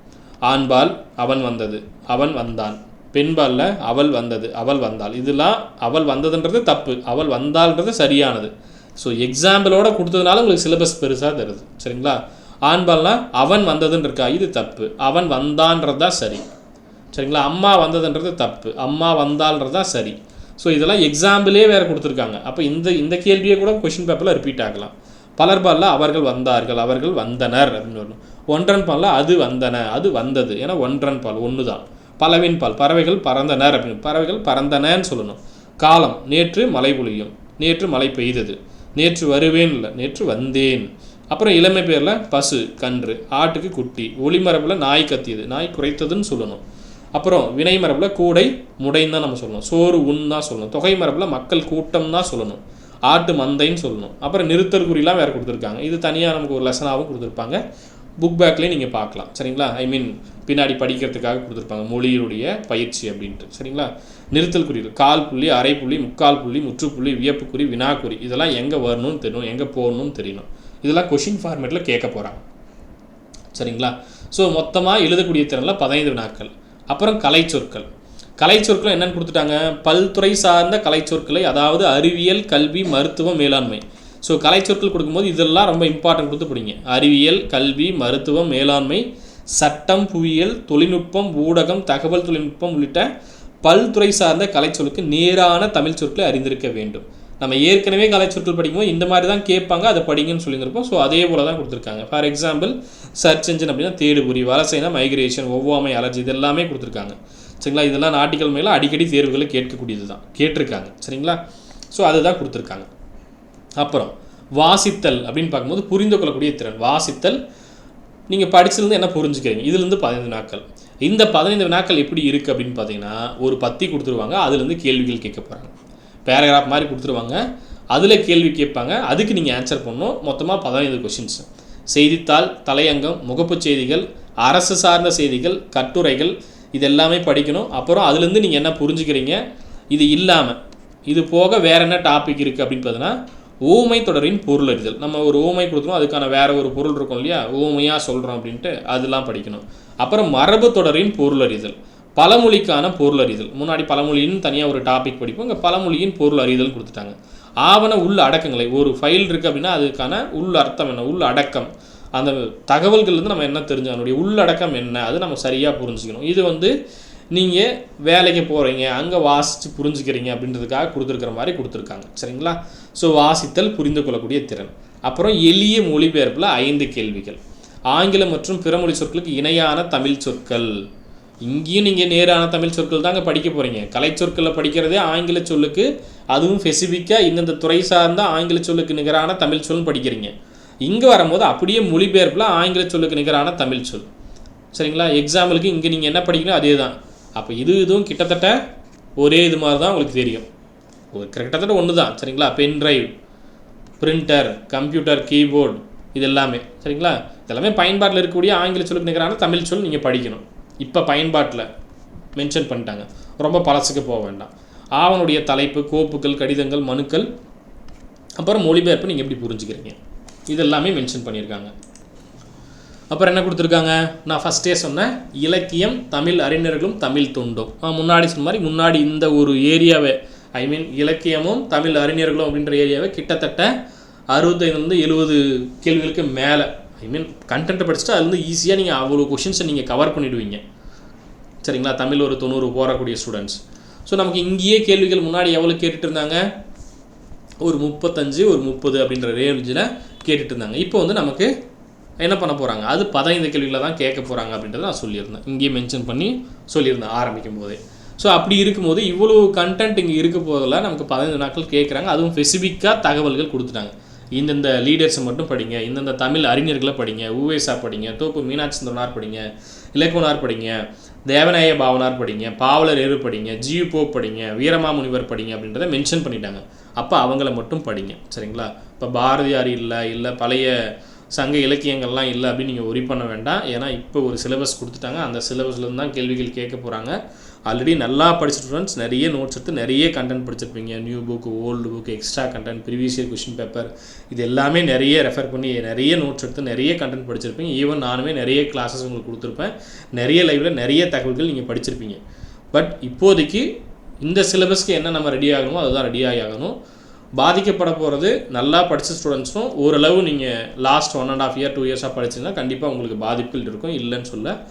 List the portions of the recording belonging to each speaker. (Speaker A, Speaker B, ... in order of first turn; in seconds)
Speaker A: 0.5-16.4, 17.1-46.6, 47.2-57.6, 58.2-72.4, 73.5-77.9, 78.4-93.1, 93.6-111.4, 111.9-112.9, 113.8-117.4, 118.3-125.7, 126.3-139.4, 139.9-166.8, 167.3-180.8, 181.4-190.3, 190.9-194.1, 194.7-198.6, 199.2-200.5, 201.1-203.1, 204.0-211.7, 212.4-217.3, 218.4-220.0, 220.5-221.7, 223.1-233.7, 234.3-240.6, 241.6-246.5, 247.6-251.5, 252.2-287.2, 287.7-302.2, 302.7-303.7, 304.2-306.8, 307.4-314.5